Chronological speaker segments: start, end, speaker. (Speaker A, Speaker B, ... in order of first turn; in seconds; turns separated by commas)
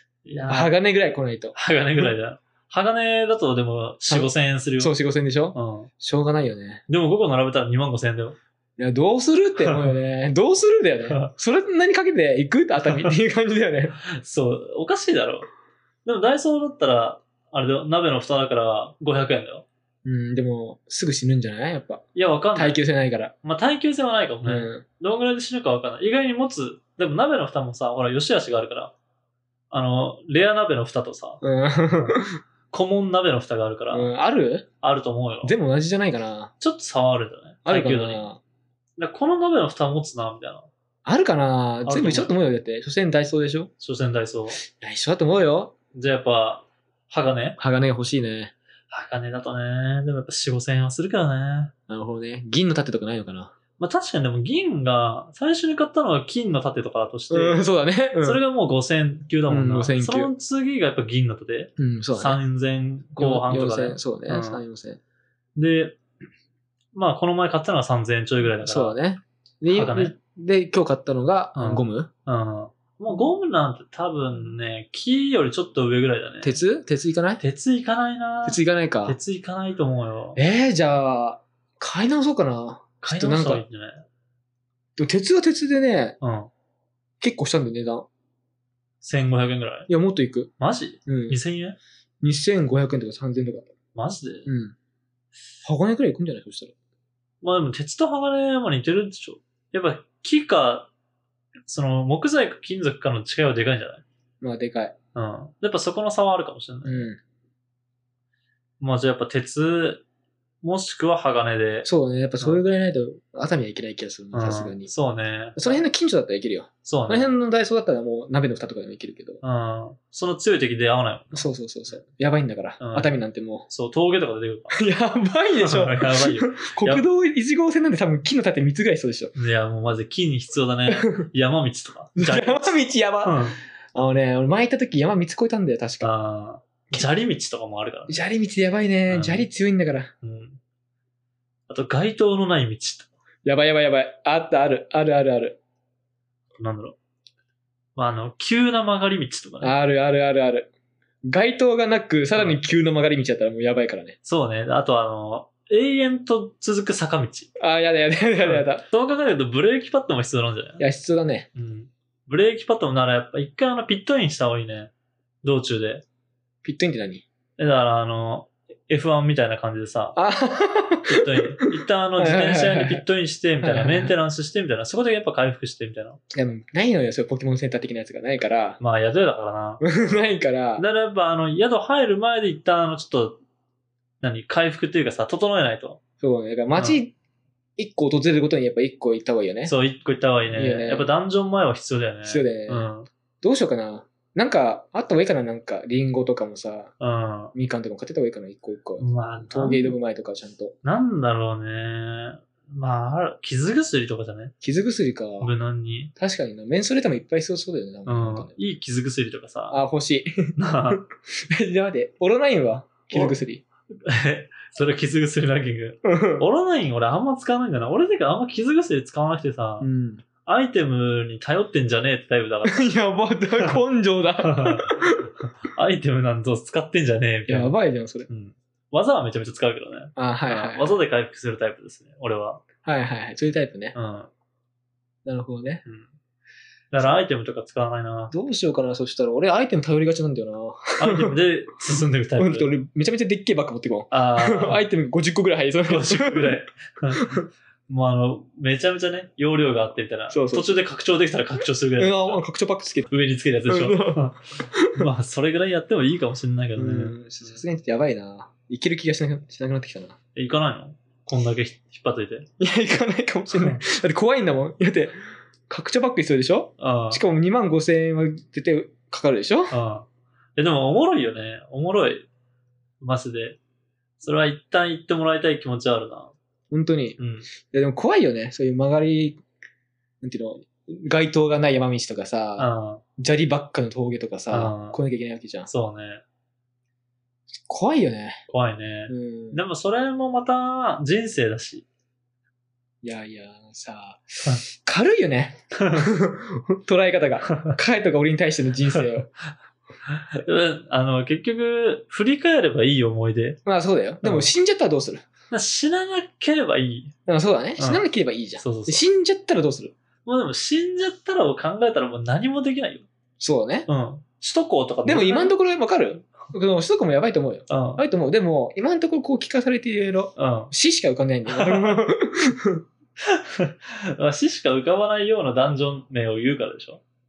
Speaker A: 0.3-0.8, Speaker B: 0.5-1.6, Speaker A: 1.5-5.0, Speaker B: 4.0-6.8, Speaker A: 5.5-5.9, Speaker A: 6.9-8.4, Speaker B: 8.8-14.0, Speaker A: 9.6-9.9, Speaker A: 14.1-15.5, Speaker A: 16.1-19.7, Speaker B: 20.1-23.3, Speaker A: 22.1-22.8, Speaker A: 23.4-28.9, Speaker B: 24.4-24.9, Speaker A: 29.7-31.4, Speaker B: 31.4-32.4, Speaker A: 32.7-34.1, Speaker B: 33.9-34.7, Speaker A: 34.8-35.5, Speaker B: 35.4-36.5, Speaker A: 36.6-38.3, Speaker B: 37.7-38.4, Speaker A: 39.0-40.7, Speaker B: 41.1-43.7, Speaker A: 41.8-42.3, Speaker A: 43.8-44.6, Speaker B: 44.7-45.7, Speaker A: 45.9-47.6, Speaker B: 47.6-48.5, Speaker A: 48.9-51.7, Speaker B: 51.9-53.5, Speaker A: 53.8-57.6, Speaker B: 57.3-58.4, Speaker A: 58.2-64.6, Speaker B: 59.5-60.3, Speaker B: 61.8-62.4, Speaker B: 63.2-65.0, Speaker A: 65.6-66.0, Speaker A: 66.9-69.0, Speaker B: 68.6-72.1, Speaker A: 69.7-70.2, Speaker A: 71.6-76.6, Speaker B: 76.4-77.4, Speaker A: 77.4-80.4, Speaker B: 78.4-79.2, Speaker B: 80.4-83.7, Speaker A: 83.0-84.0, Speaker B: 85.0-86.2, Speaker A: 86.2-86.5, Speaker B: 87.2-88.1, Speaker A: 89.0-89.9, Speaker B: 89.9-90.5, Speaker A: 90.6-91.8, Speaker B: 91.1-91.4, Speaker B: 92.2-93.7, Speaker A: 94.0-94.5, Speaker B: 94.5-94.8, Speaker B: 95.6-96.7, Speaker A: 97.4-100.9, Speaker A: 101.7-104.0, Speaker B: 104.4-105.0, Speaker A: 105.2-107.1, Speaker B: 106.8-107.2, Speaker A: 108.8-110.0, Speaker A: 110.6-111.9, Speaker B: 111.8-114.9, Speaker A: 114.3-115.8, Speaker B: 115.6-119.4, Speaker A: 116.8-117.3, Speaker A: 119.4-122.0, Speaker B: 121.3-123.7, Speaker A: 122.8-123.1, Speaker A: 123.7-124.8, Speaker B: 124.7-129.3, Speaker A: 125.6-127.0, Speaker A: 129.3-133.6, Speaker B: 130.9-131.3, Speaker B: 132.2-136.1, Speaker A: 136.0-138.2, Speaker B: 138.1-140.1, Speaker A: 139.1-139.5, Speaker A: 140.2-140.6, Speaker A: 141.7-143.1, Speaker B: 143.4-145.6, Speaker A: 146.6-147.0, Speaker A: 148.0-149.8, Speaker B: 149.6-150.7, Speaker B: 151.2-154.2, Speaker A: 152.3-152.6, Speaker A: 154.2-157.5, Speaker B: 157.6-158.8, Speaker A: 158.4-160.8, Speaker B: 160.8-161.5, Speaker A: 161.6-164.9, Speaker A: 165.4-166.0, Speaker B: 166.6-167.2, Speaker A: 167.6-170.2, Speaker B: 170.2-171.4, Speaker A: 171.1-176.2, Speaker B: 172.2-173.0, Speaker B: 173.6-174.2, Speaker B: 176.3-178.8, Speaker A: 178.8-180.2, Speaker B: 179.8-180.8, Speaker A: 180.8-183.4, Speaker A: 184.2-186.0, Speaker B: 186.2-187.1, Speaker A: 186.7-187.0, Speaker B: 187.8-189.7, Speaker A: 189.7-193.1, Speaker B: 190.5-191.1, Speaker B: 192.2-192.9, Speaker B: 193.4-196.9, Speaker A: 197.0-197.5, Speaker B: 197.5-200.8, Speaker A: 199.0-200.0, Speaker A: 200.8-204.5, Speaker B: 204.6-205.5, Speaker A: 205.4-206.1, Speaker B: 206.2-208.5, Speaker A: 208.1-209.8, Speaker B: 209.7-213.6, Speaker A: 210.6-211.0, Speaker A: 213.1-213.4, Speaker A: 214.1-219.9, Speaker B: 216.1-216.5, Speaker B: 219.8-220.2, Speaker A: 220.4-222.9, Speaker B: 222.7-225.3, Speaker A: 224.4-225.1, Speaker A: 225.7-227.8, Speaker B: 227.5-228.3, Speaker A: 228.3-232.6, Speaker B: 230.2-231.0, Speaker B: 232.8-233.9, Speaker A: 233.9-234.3, Speaker B: 235.2-235.8, Speaker A: 235.8-236.1, Speaker A: 236.9-238.3, Speaker B: 238.3-241.4, Speaker A: 241.0-242.7, Speaker B: 242.4-246.6, Speaker A: 244.1-244.8, Speaker A: 245.9-252.4, Speaker B: 247.1-247.4, Speaker B: 250.3-250.8, Speaker B: 252.0-253.1, Speaker A: 253.1-257.2, Speaker B: 253.7-255.1, Speaker B: 256.8-260.2, Speaker A: 260.4-262.5, Speaker B: 262.6-265.2, Speaker A: 263.5-263.8, Speaker B: 265.7-269.8, Speaker A: 266.8-267.2, Speaker A: 269.7-272.3, Speaker A: 273.0-273.6, Speaker A: 274.2-276.3, Speaker B: 276.7-279.4, Speaker A: 277.2-277.5, Speaker B: 280.2-285.7, Speaker A: 282.6-283.0, Speaker A: 284.5-285.0, Speaker A: 285.7-286.2, Speaker B: 287.7-288.4, Speaker A: 288.5-291.9, Speaker B: 289.1-289.6, Speaker B: 293.0-299.3, Speaker A: 295.8-296.1, Speaker A: 300.1-303.6, Speaker B: 303.6-305.2, Speaker A: 304.2-304.5, Speaker A: 305.5-307.1, Speaker B: 307.3-309.9, Speaker A: 307.8-308.1, Speaker A: 308.6-309.0, Speaker A: 310.2-313.1, Speaker B: 313.4-313.9, Speaker A: 313.9-315.5, Speaker B: 315.1-322.8, Speaker A: 317.7-318.0, Speaker A: 320.4-320.7, Speaker A: 321.5-322.0, Speaker A: 323.3-327.0